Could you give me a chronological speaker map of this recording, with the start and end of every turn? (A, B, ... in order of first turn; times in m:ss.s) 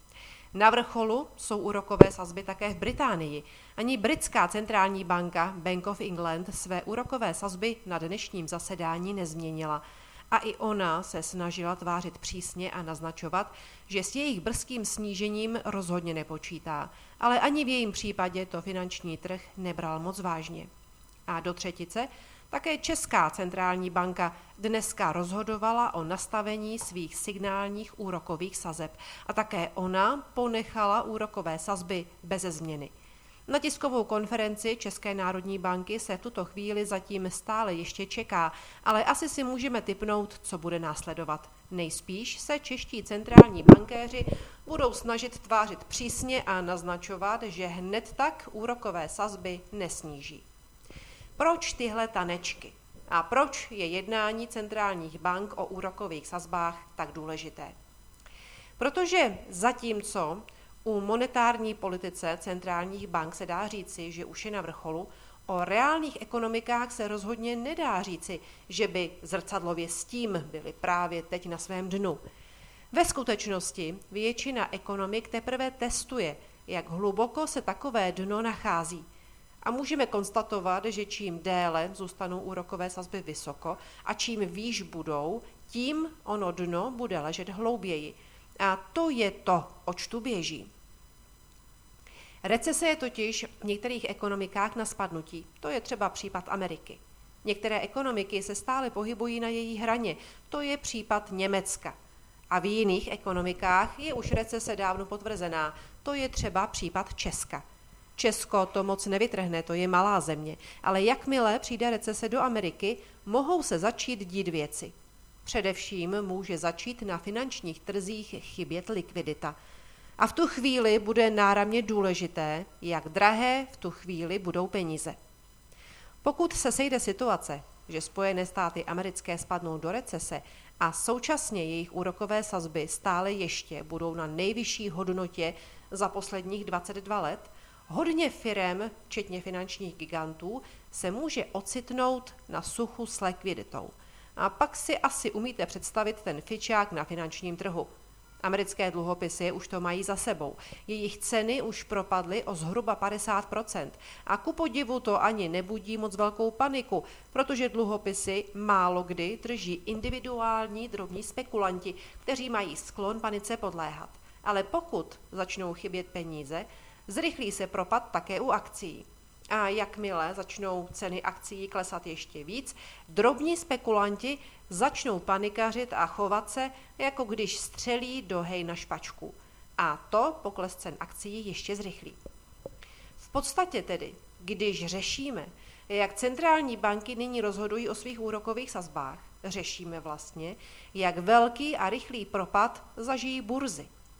0:00.5-0:20.7 A
0:21.3-0:32.9 A
0:33.5-0:50.4 A
0:51.4-0:57.7 A
0:58.8-1:12.2 A
1:12.9-1:19.0 A
1:19.6-1:30.7 A
1:32.4-1:41.9 A
1:42.5-1:47.6 A
1:48.2-1:54.9 A
1:55.4-1:59.5 A
2:00.2-2:05.2 A
2:06.2-2:27.9 A
2:28.4-3:02.2 A
3:03.2-3:13.9 A